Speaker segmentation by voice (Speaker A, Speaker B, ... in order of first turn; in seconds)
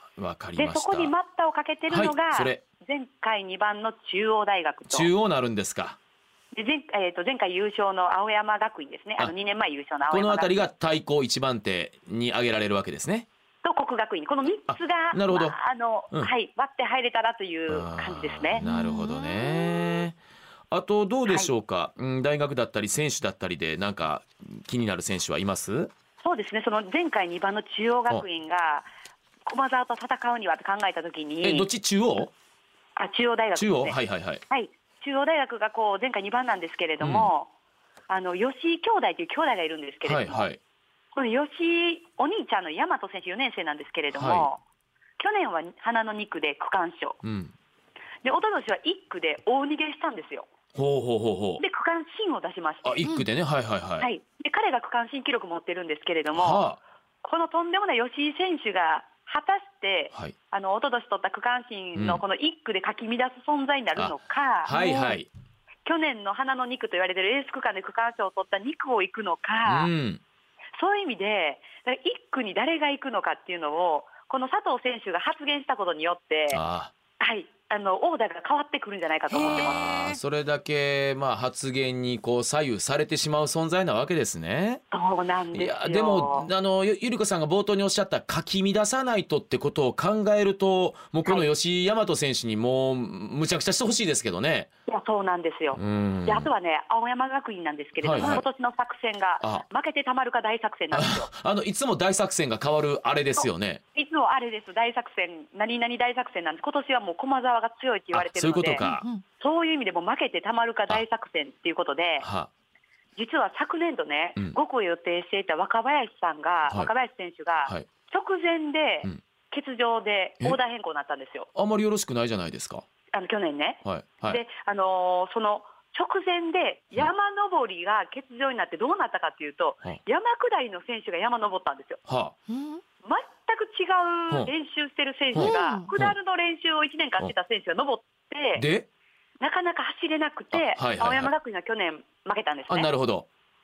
Speaker A: 0.2-1.1, 1.9-2.6, 4.9-6.0, 10.1-13.3, 14.7-15.6, 17.7-20.2, 20.7-25.9, 31.4-32.3, 33.5-34.4, 37.0-37.3, 40.0-40.6, 44.1-44.5, 47.2-47.5, 50.8-51.6, 52.8-54.1, 56.3-56.8, 62.0-62.2, 64.7-65.3, 69.7-70.2, 76.5-76.9, 79.3-84.8, 85.5-94.7, 95.8-96.5, 98.0-98.4, 100.9-103.8, 108.1-109.1, 112.2-112.5, 121.5-122.8, 123.8-124.4, 132.1-132.3, 135.3-136.2, 138.6-138.9, 140.5-141.3, 142.7-143.3
Speaker B: 0.6-5.1, 6.5-10.7, 13.6-18.6, 21.3-21.5, 26.2-28.9, 29.4-31.7, 33.0-37.5, 38.1-40.5, 41.1-44.6, 45.2-47.2, 48.2-50.5, 51.6-53.1, 54.0-56.7, 57.2-64.8, 65.8-69.9, 70.8-76.6, 77.2-79.8, 84.9-86.5, 94.9-101.3, 103.4-108.9, 109.4-112.3, 113.2-121.5, 123.1-132.0, 133.0-138.7, 139.4-142.9
Speaker C: 18.6-20.0, 64.7-65.1, 79.3-80.2, 108.8-109.2, 132.5-132.8, 135.4-135.9